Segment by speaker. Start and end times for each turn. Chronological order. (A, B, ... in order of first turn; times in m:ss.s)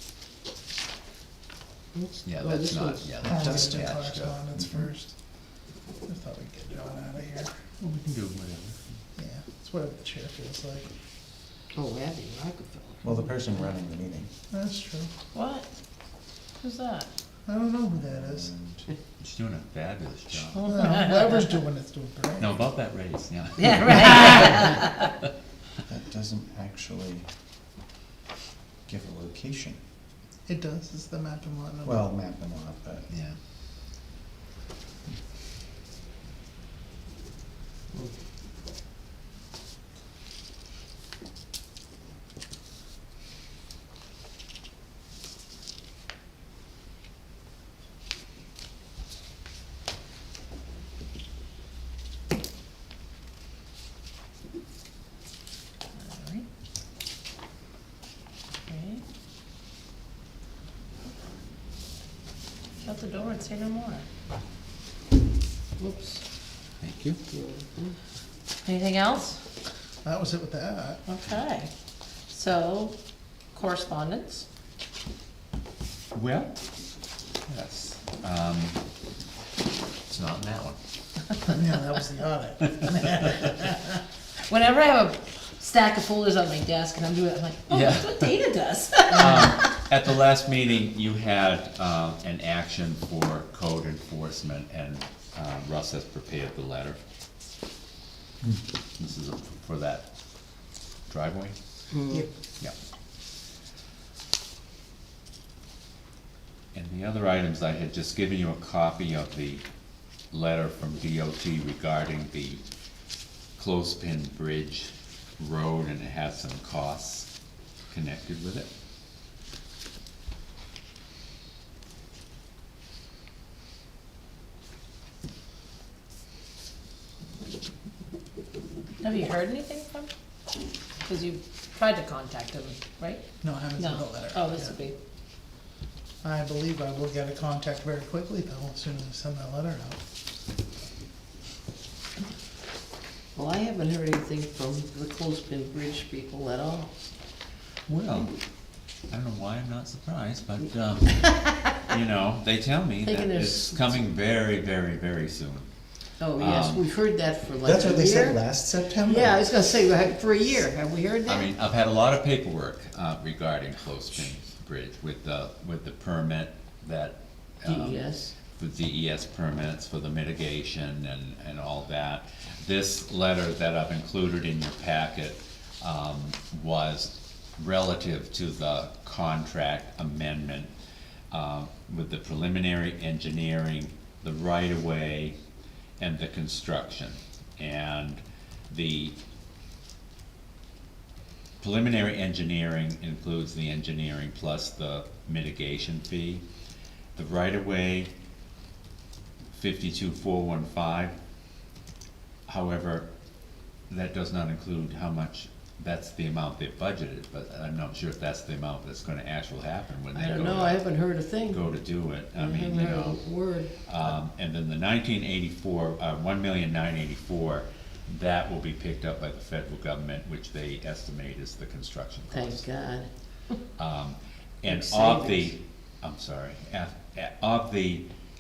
0:01.9-0:03.2 A
0:02.2-0:04.4 B
0:03.2-0:03.9 C
0:03.2-0:05.1 D
0:04.5-0:04.9 C
0:06.0-0:07.5 D
0:07.8-0:08.9 B
0:09.2-0:10.8 D
0:11.7-0:13.1 A
0:13.0-0:14.3 C
0:14.5-0:15.1 D
0:15.3-0:15.7 E
0:16.6-0:17.1 E
0:17.4-0:18.5 D
0:18.0-0:18.9 C
0:19.2-0:20.7 B
0:20.5-0:21.5 E
0:20.6-0:22.6 D
0:22.4-0:24.8 B
0:23.6-0:25.1 E
0:25.8-0:27.3 C
0:28.9-0:29.8 C
0:30.5-0:32.0 D
0:31.8-0:33.1 C
0:33.1-0:33.4 B
0:56.0-0:56.4 E
0:58.7-0:59.0 E
1:02.8-1:04.0 E
1:05.8-1:06.2 A
1:06.8-1:07.2 B
1:07.3-1:08.0 A
1:08.6-1:09.4 E
1:10.0-1:11.0 D
1:11.1-1:11.7 E
1:12.3-1:12.9 E
1:13.5-1:14.4 E
1:16.1-1:16.5 B
1:17.5-1:18.8 B
1:20.1-1:20.8 B
1:21.4-1:23.9 D
1:24.5-1:29.7 E
1:27.7-1:28.4 B
1:29.1-1:37.0 B
1:39.0-1:40.0 B
1:41.1-1:41.6 B
1:41.9-1:42.3 A
1:46.7-1:49.6 B
1:50.3-1:52.6 B
1:53.6-1:57.3 B
1:57.9-1:58.7 B
2:09.0-2:10.1 E
2:11.0-2:13.2 E
2:13.4-2:14.8 D
2:13.8-2:14.9 E
2:16.2-2:20.0 D
2:23.3-2:27.1 A
2:27.9-2:28.4 B
2:29.1-2:35.7 B
2:33.0-2:34.1 A
2:36.2-2:41.5 A
2:36.3-2:36.9 B
2:37.6-2:39.5 C
2:41.2-3:00.7 B
2:47.6-2:48.3 A
3:01.3-3:05.4 B
3:06.0-3:09.2 B
3:11.6-3:16.4 B
3:17.1-3:18.1 B
3:19.5-3:21.1 B
3:22.5-3:23.1 B
3:23.9-3:42.6 B
3:30.1-3:31.7 A
3:32.3-3:33.7 A
3:42.3-3:43.6 A
3:43.8-3:48.0 B
3:44.6-3:45.6 A